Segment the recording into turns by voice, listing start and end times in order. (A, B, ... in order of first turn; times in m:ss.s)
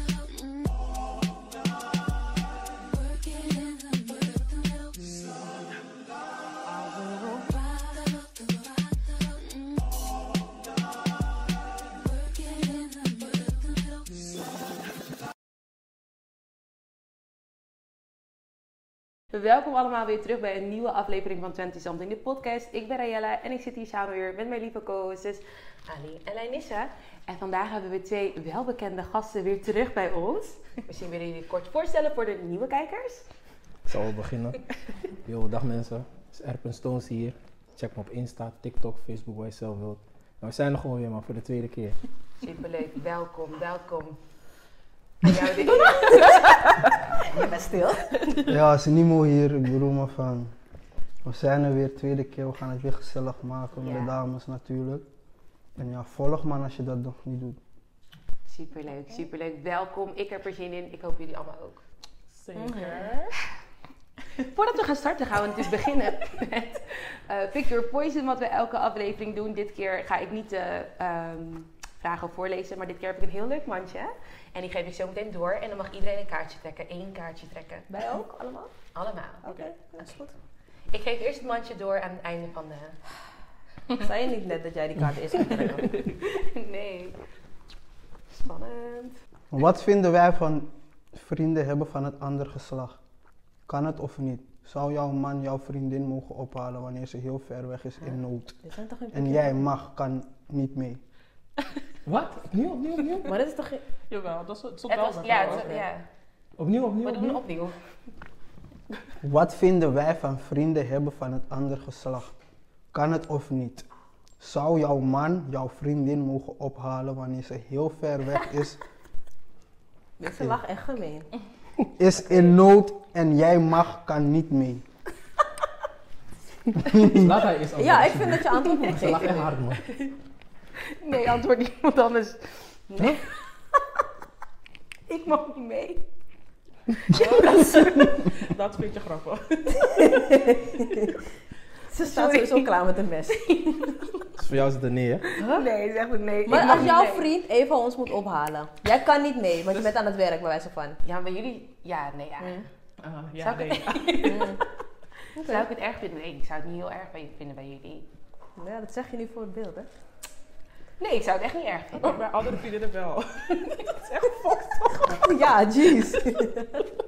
0:03.3-0:03.9 A
0:19.3-0:33.2 B
0:33.8-0:34.6 A
0:35.2-0:42.0 A
0:42.4-0:44.2 B
0:45.2-0:46.3 B
0:45.8-0:46.4 C
0:47.2-0:48.4 C
0:48.4-0:50.5 D
0:51.2-0:55.0 D
0:55.8-0:57.6 D
0:58.5-1:01.8 B
1:02.3-1:03.3 E
1:02.6-1:03.1 C
1:04.4-1:17.9 B
1:17.9-1:18.7 C
1:18.9-1:19.4 B
1:19.4-1:19.8 E
1:19.4-1:20.3 C
1:20.9-1:23.0 B
1:23.9-1:25.9 C
1:26.2-1:27.2 B
1:28.3-1:29.2 B
1:29.5-1:33.0 D
1:33.7-1:38.6 D
1:38.6-1:39.6 C
1:39.1-1:41.0 D
1:42.0-1:43.4 A
1:43.2-1:43.8 C
1:44.1-1:45.7 E
1:44.9-1:46.0 B
1:45.3-1:45.8 C
1:46.6-1:47.4 A
1:47.0-1:47.7 B
1:49.2-1:52.3 D
1:52.9-1:53.8 D
1:54.4-1:58.8 D
2:00.2-2:01.3 C
2:00.2-2:00.6 D
2:02.0-2:04.8 D
2:06.8-2:09.8 A
2:06.8-2:07.3 D
2:07.7-2:09.6 C
2:11.0-2:13.2 B
2:15.1-2:16.0 B
2:17.1-2:18.1 B
2:17.1-2:19.9 E
2:19.8-2:21.2 C
2:21.9-2:24.0 C
2:22.0-2:22.7 B
2:23.4-2:23.9 B
2:24.4-2:25.3 A
2:25.3-2:27.3 B
2:25.3-2:25.6 C
2:26.5-2:31.0 C
2:26.5-2:26.8 A
2:31.0-2:34.6 B
2:32.4-2:32.6 C
2:33.3-2:34.2 E
2:34.2-2:34.6 C
2:35.4-2:35.7 C
2:35.4-2:38.0 B
2:38.6-2:39.9 C
2:41.0-2:42.2 B
2:42.0-2:45.3 E
2:45.0-2:46.8 C